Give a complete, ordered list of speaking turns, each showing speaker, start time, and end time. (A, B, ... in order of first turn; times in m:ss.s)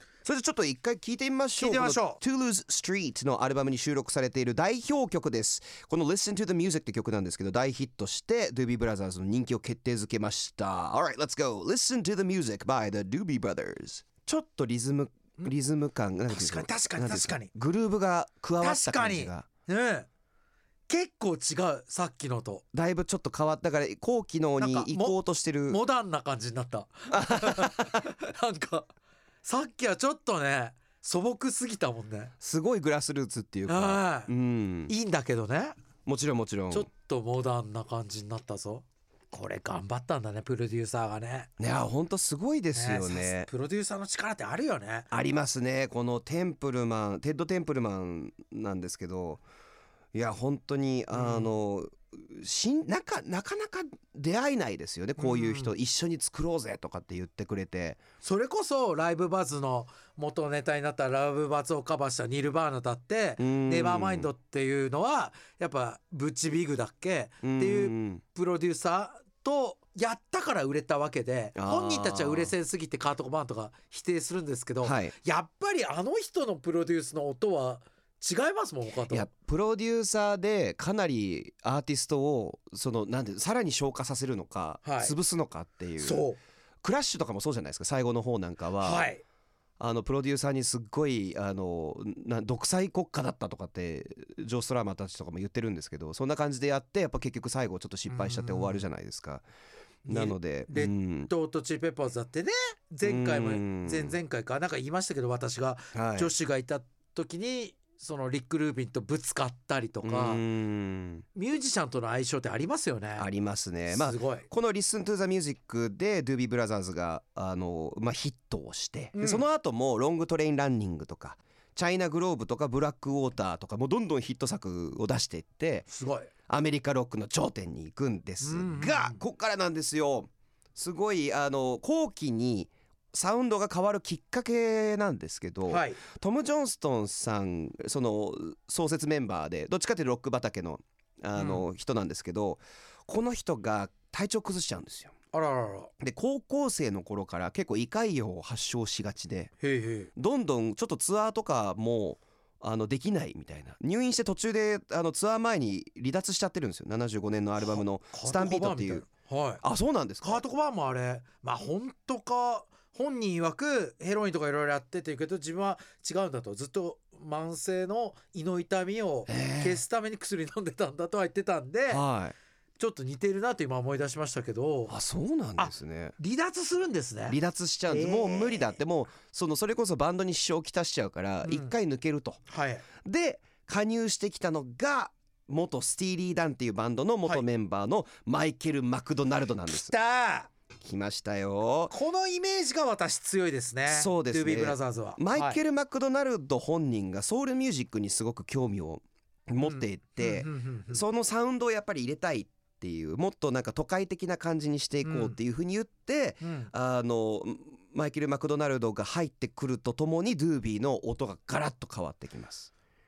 0:00.2-0:19.5 A
0:01.6-0:02.2 B
0:16.3-0:17.5 B
0:18.6-0:20.1 B
0:20.9-0:22.6 B
0:22.7-0:25.8 A
0:24.6-0:25.2 B
0:25.7-0:28.9 B
0:27.1-0:28.1 A
0:29.4-0:32.3 B
0:32.4-0:34.9 A
0:33.7-0:34.3 B
0:34.9-0:35.8 B
0:36.0-0:36.9 A
0:36.7-0:41.5 B
0:41.6-0:43.5 A
0:42.7-0:45.1 B
0:45.1-0:49.4 A
0:50.1-0:58.0 A
0:51.1-0:51.5 B
0:55.2-0:55.7 B
0:58.2-1:19.3 B
1:03.4-1:04.3 A
1:07.4-1:08.2 A
1:11.6-1:12.5 A
1:14.8-1:15.1 A
1:19.1-1:26.2 A
1:24.8-1:25.1 B
1:26.0-1:26.4 B
1:26.8-1:29.0 A
1:28.8-1:29.2 B
1:29.8-1:39.4 A
1:38.1-1:38.8 B
1:40.0-1:50.4 B
1:40.1-1:41.3 A
1:43.0-1:44.2 A
1:45.9-1:46.3 A
1:50.0-1:51.2 A
1:51.3-1:53.3 B
1:53.2-2:05.9 A
1:53.9-1:54.4 B
1:59.1-1:59.4 B
2:05.9-2:06.3 B
2:06.5-2:25.1 A
2:08.4-2:09.2 B
2:15.7-2:16.0 B
2:21.4-2:21.6 B
2:25.3-2:25.9 B
2:26.0-2:29.5 A
2:29.6-2:30.1 B
2:30.2-2:39.0 A
2:37.6-2:39.6 B
2:39.6-2:40.4 A
2:40.2-2:52.0 B
2:49.3-2:49.8 A
2:51.9-2:52.3 A
2:52.8-2:55.0 B
2:54.9-2:56.1 A
2:55.6-2:58.8 B
2:57.3-3:02.4 A
3:01.4-3:01.7 B
3:02.5-3:02.8 B
3:03.0-3:09.9 A
3:09.6-3:10.5 B
3:10.8-3:11.9 A
3:11.9-3:15.6 B
3:13.9-3:32.7 A
3:19.6-3:21.0 B
3:25.0-3:25.4 B
3:26.4-3:26.7 B